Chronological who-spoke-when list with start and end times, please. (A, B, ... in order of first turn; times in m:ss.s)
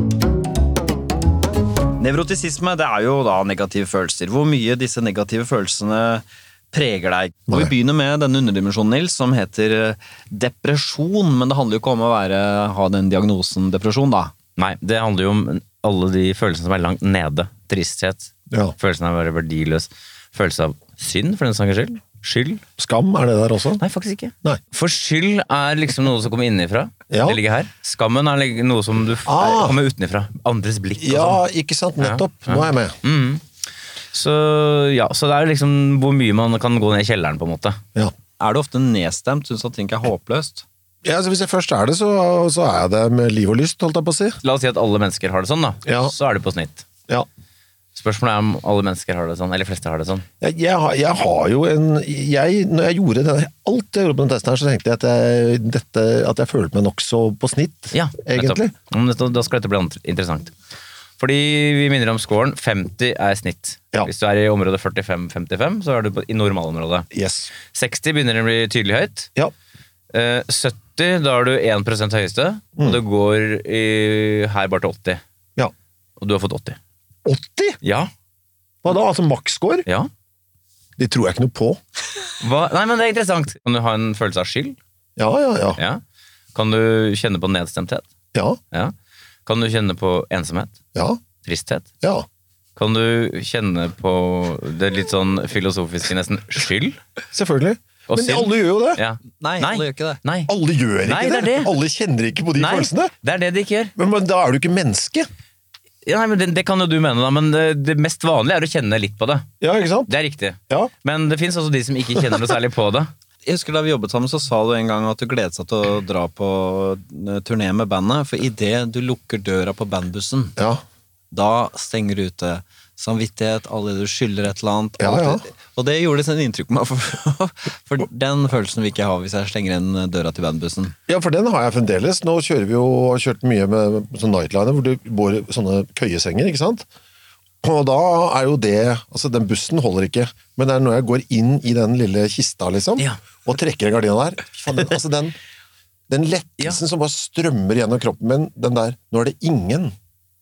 0:02.0-0:14.3 A
0:14.6-0:22.6 B
0:18.5-0:18.8 C
0:22.8-0:23.8 C
0:23.8-0:31.4 B
0:27.1-0:27.4 C
0:29.2-0:29.8 C
0:31.0-0:33.0 C
0:32.0-0:33.4 B
0:34.1-0:37.8 B
0:38.4-0:40.6 A
0:41.0-0:44.4 C
0:44.4-0:46.8 B
0:45.8-0:46.1 C
0:47.9-0:50.2 B
0:50.4-0:58.7 C
0:57.9-1:00.5 B
1:01.2-1:07.1 B
1:07.1-1:07.5 C
1:07.6-1:09.3 B
1:10.1-1:15.2 B
1:16.2-1:16.8 B
1:17.2-1:17.8 C
1:17.8-1:18.1 B
1:18.8-1:19.8 C
1:21.0-1:21.8 C
1:22.4-1:24.8 B
1:25.2-1:25.8 C
1:25.8-1:26.0 B
1:26.5-1:28.0 B
1:28.3-1:28.6 C
1:29.4-1:30.8 B
1:30.9-1:31.2 C
1:31.4-1:31.9 B
1:32.0-1:32.3 C
1:32.8-1:37.0 B
1:37.3-1:39.0 C
1:38.1-1:40.5 B
1:39.4-1:40.2 A
1:40.5-1:43.1 C
1:41.0-1:41.7 B
1:42.6-1:43.9 B
1:44.0-1:45.3 C
1:46.0-1:49.5 B
1:49.6-1:50.1 C
1:50.1-1:53.1 B
1:53.4-2:00.5 A
2:00.6-2:00.8 C
2:01.3-2:11.0 A
2:05.0-2:05.4 C
2:11.1-2:16.9 C
2:17.6-2:25.4 C
2:26.1-2:29.9 C